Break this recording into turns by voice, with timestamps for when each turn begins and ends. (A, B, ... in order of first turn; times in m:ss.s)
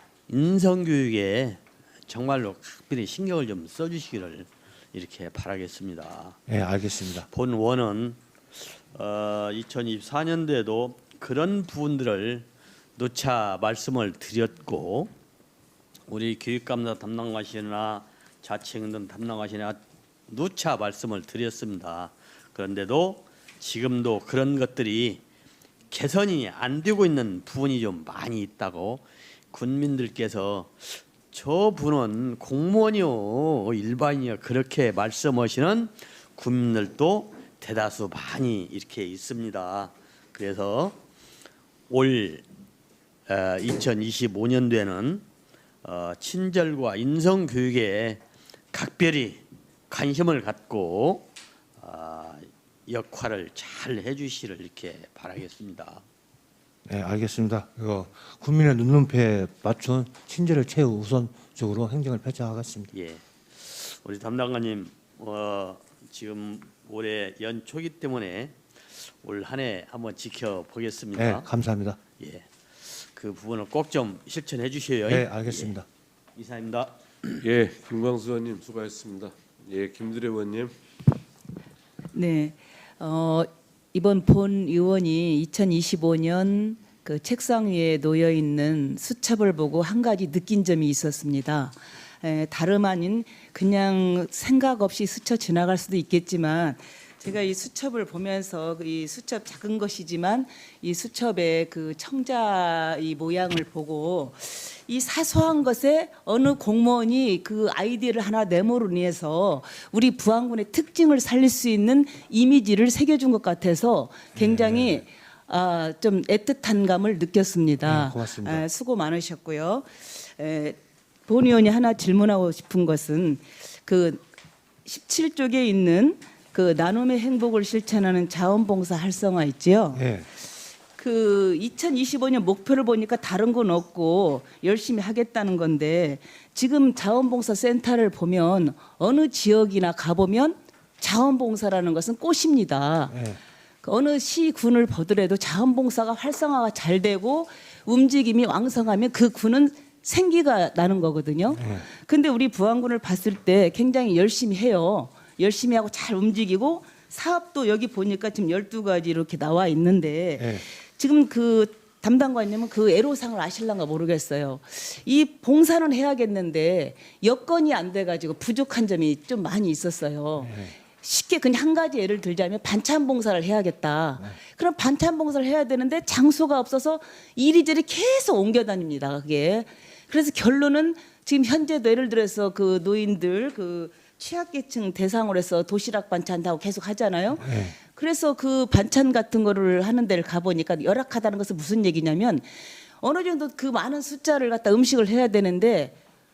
0:00.3-0:06.4 A
0:06.5-0:07.3 B
0:07.3-0:15.1 A
0:16.1-0:25.2 A
0:25.9-0:41.0 A
0:41.9-0:42.4 A
0:43.3-0:45.2 A
0:45.8-0:48.2 A
0:48.7-0:56.0 A
0:56.8-1:02.9 B
1:02.9-1:11.5 A
1:11.2-1:12.0 B
1:12.2-1:15.7 A
1:15.1-1:15.8 B
1:16.4-1:17.4 A
1:17.4-1:20.7 C
1:22.1-2:04.2 D
1:54.3-1:55.0 B
1:57.8-1:58.6 B
2:04.8-2:10.1 D
2:09.9-2:10.3 B
2:11.0-2:23.2 D
2:23.1-2:23.4 B
2:23.8-3:12.5 D
2:31.5-2:31.8 B
2:40.4-2:40.6 B
2:50.4-2:50.7 B
3:07.4-3:07.8 B
3:13.0-3:15.9 D